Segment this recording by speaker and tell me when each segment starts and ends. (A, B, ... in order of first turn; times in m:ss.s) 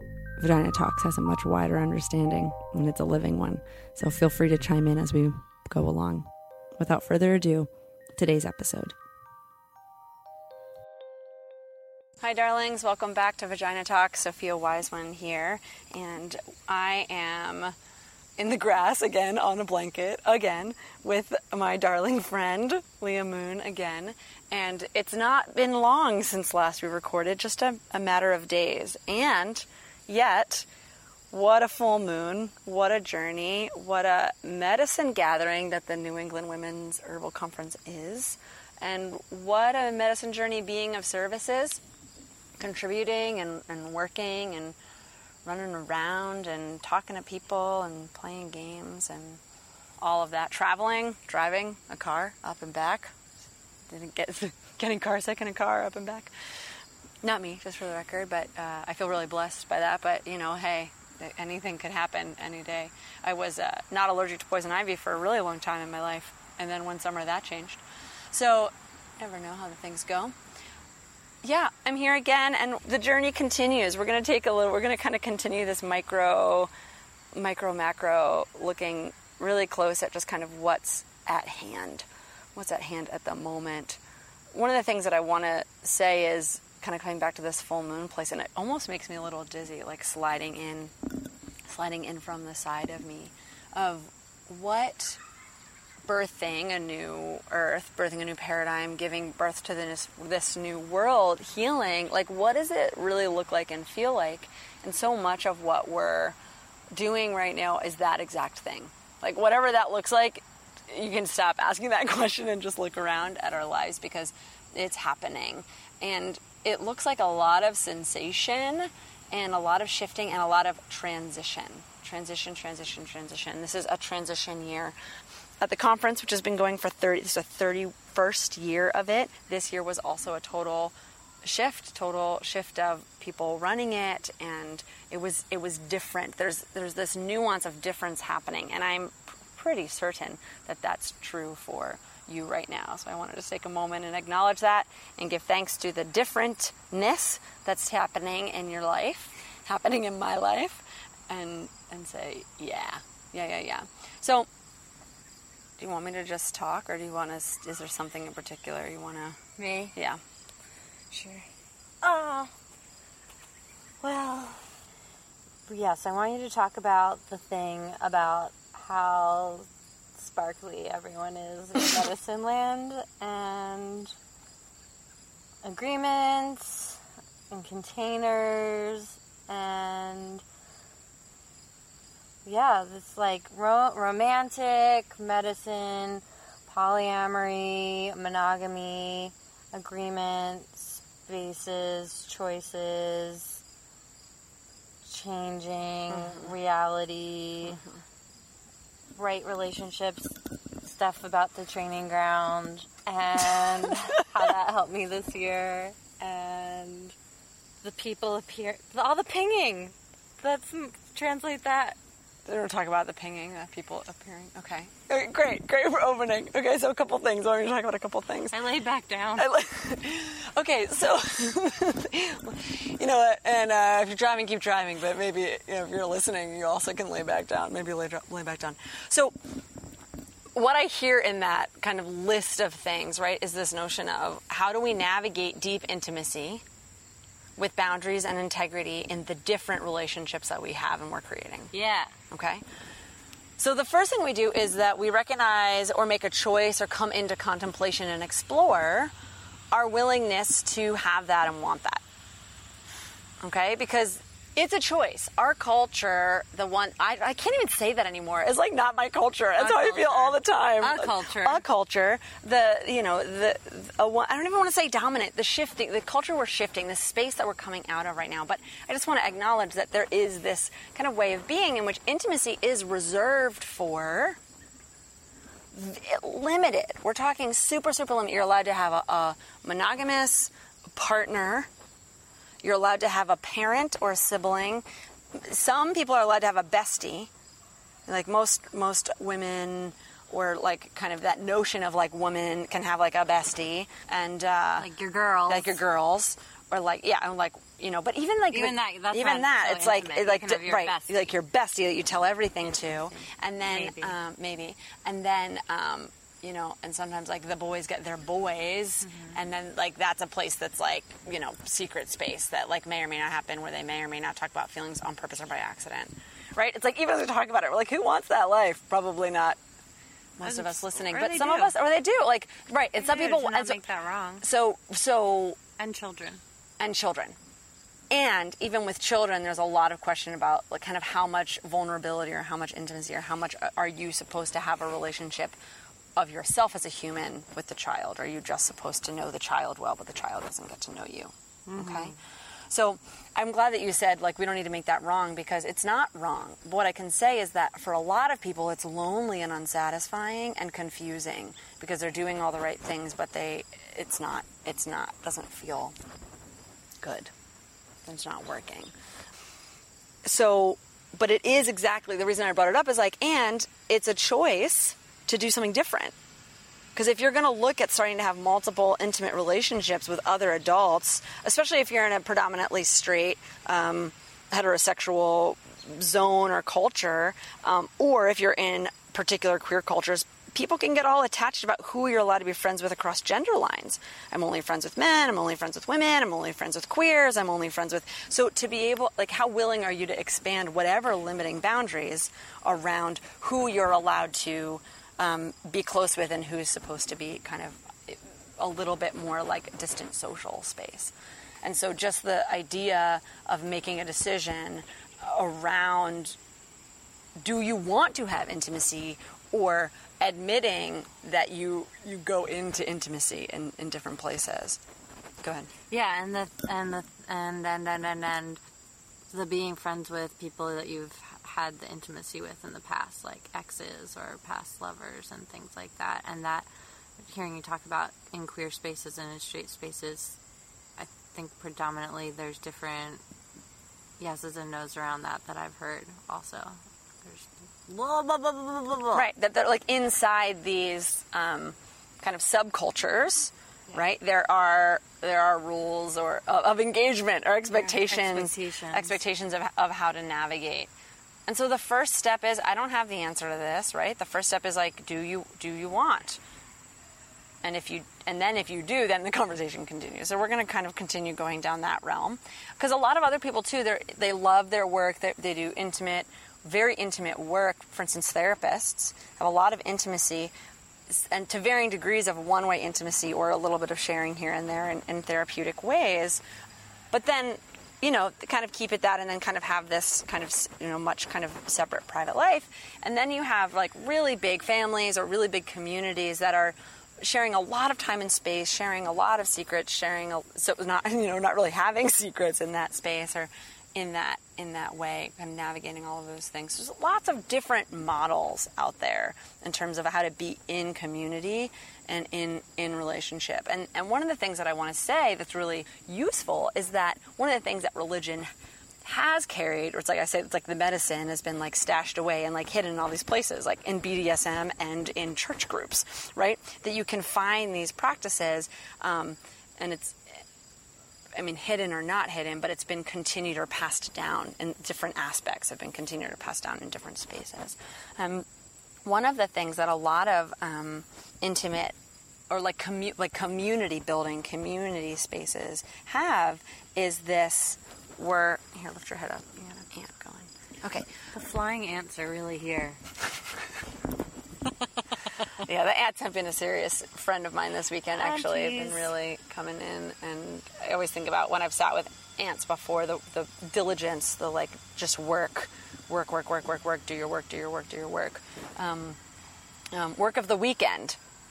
0:00.4-0:09.0 A
0:12.2-0:17.8 A
0:18.4-0:30.7 A
0:31.3-0:41.8 A
0:42.6-0:44.8 A
0:45.4-0:49.4 A
0:50.0-0:53.2 A
0:53.9-0:56.3 A
0:57.2-1:10.3 A
1:11.4-1:16.7 A
1:17.3-1:24.0 A
1:24.5-1:30.9 A
1:31.7-1:35.2 A
1:36.1-1:46.4 A
1:46.9-2:05.0 A
2:05.6-2:34.5 A
2:35.8-2:39.4 A
2:39.6-2:40.0 B
2:40.0-2:40.2 A
2:41.1-2:41.5 B
2:42.0-2:42.5 B
2:44.0-2:44.7 B
2:45.7-2:54.1 B
2:55.6-3:00.4 B
3:02.4-3:13.6 B
3:15.0-3:17.8 B
3:19.2-3:27.2 B
3:27.8-3:32.0 B
3:32.5-3:38.6 A
3:38.5-3:39.5 B
3:39.4-3:49.3 A
3:50.6-3:56.6 A
3:57.6-4:01.7 A
4:01.7-4:02.1 B
4:02.3-4:02.6 A
4:03.6-4:09.1 A
4:09.7-4:12.0 A
4:13.4-4:34.4 A
4:19.6-4:21.6 B
4:35.7-4:41.7 A
4:42.6-4:44.8 A
4:45.4-4:47.3 A
4:48.1-4:54.9 A
4:54.8-4:55.8 B
4:55.5-5:19.6 A
4:58.5-5:01.3 B
5:02.6-5:04.2 B
5:09.0-5:09.4 B
5:20.4-5:23.8 A
5:20.4-5:21.7 B
5:23.0-5:24.4 B
5:24.4-5:25.6 A
5:25.8-5:26.4 B
5:26.8-5:27.4 A
5:28.1-5:35.6 A
5:36.2-5:42.2 A
5:41.7-5:42.2 B
5:42.7-5:56.0 A
5:57.0-5:57.3 A
5:58.1-5:58.9 A
6:00.2-6:06.2 A
6:07.0-6:46.4 A
6:47.4-6:54.8 A
6:55.4-6:55.7 A
6:55.9-6:58.6 B
6:59.3-7:06.7 B
7:07.2-7:10.4 B
7:11.0-7:13.2 B
7:14.2-7:19.3 B
7:19.1-7:30.9 A
7:27.7-7:29.2 B
7:31.5-7:36.4 A
7:37.6-7:50.5 A
7:51.1-7:56.4 A
7:57.1-8:28.5 A
8:29.0-8:40.2 A
8:41.4-8:48.5 A
8:49.0-8:52.0 A
8:52.5-9:01.1 A
9:01.3-9:03.0 B
9:05.5-9:19.2 A
9:08.2-9:09.1 B
9:19.9-9:21.2 A